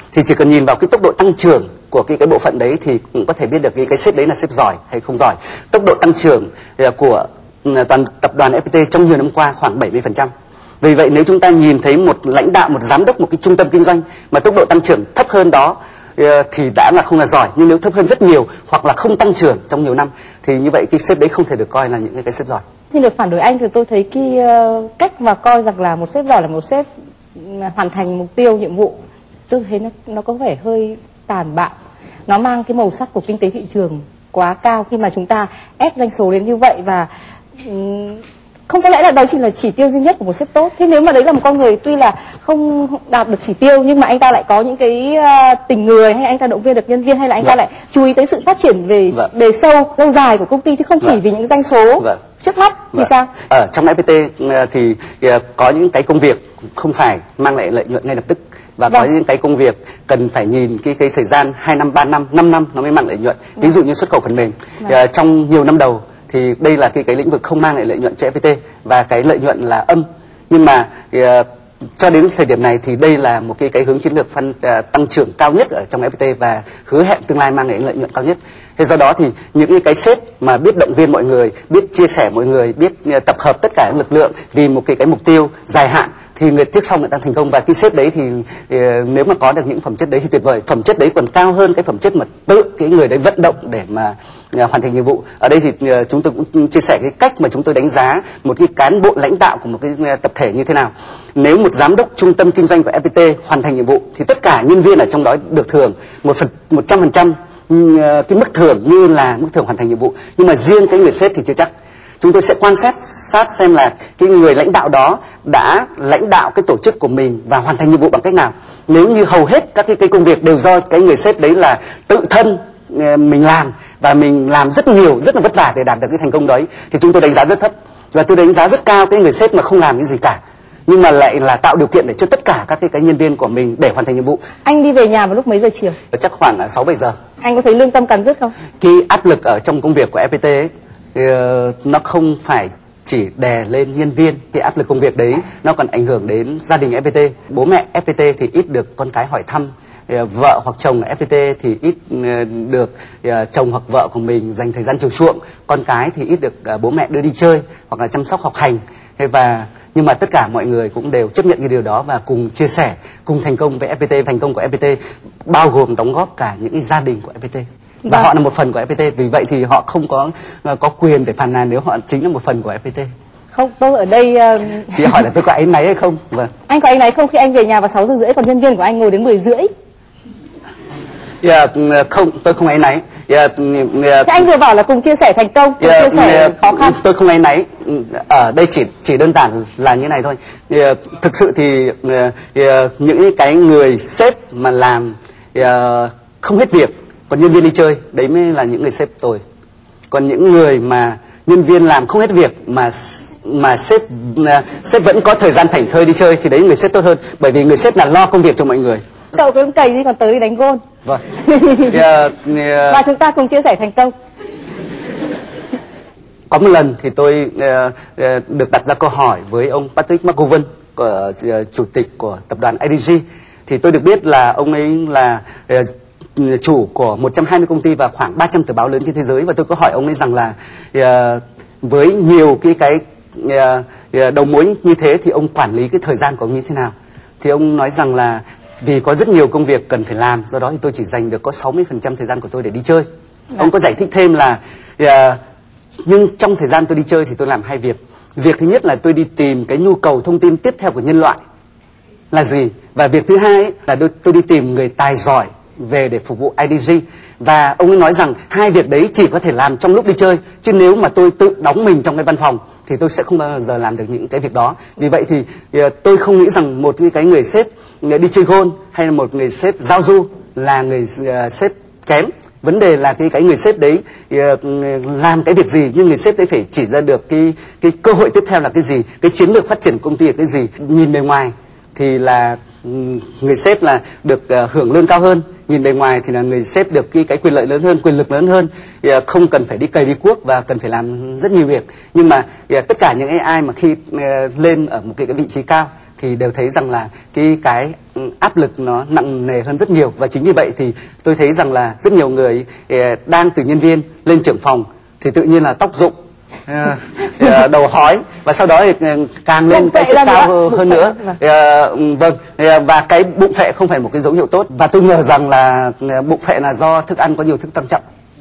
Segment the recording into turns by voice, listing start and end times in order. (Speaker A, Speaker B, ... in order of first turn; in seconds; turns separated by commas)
Speaker A: 0.1-22.6, Speaker B: 22.9-26.9, Speaker B: 27.4-29.0, Speaker B: 29.5-31.7, Speaker B: 32.3-37.1, Speaker B: 37.6-53.3, Speaker A: 53.0-71.5, Speaker A: 72.0-111.7, Speaker A: 112.2-134.4, Speaker B: 134.6-136.0, Speaker A: 136.1-137.2, Speaker B: 137.4-138.5, Speaker A: 138.8-173.1, Speaker B: 173.5-175.2, Speaker A: 174.9-176.5, Speaker B: 176.7-179.7, Speaker A: 181.4-184.4, Speaker B: 184.2-187.0, Speaker A: 185.8-199.4, Speaker A: 200.1-209.0, Speaker B: 209.3-210.8, Speaker B: 211.4-211.9, Speaker A: 211.8-213.0, Speaker B: 212.9-214.1, Speaker A: 216.5-243.1, Speaker A: 243.6-245.4, Speaker A: 246.1-251.4, Speaker A: 252.3-306.1, Speaker A: 306.7-318.0, Speaker B: 309.7-311.4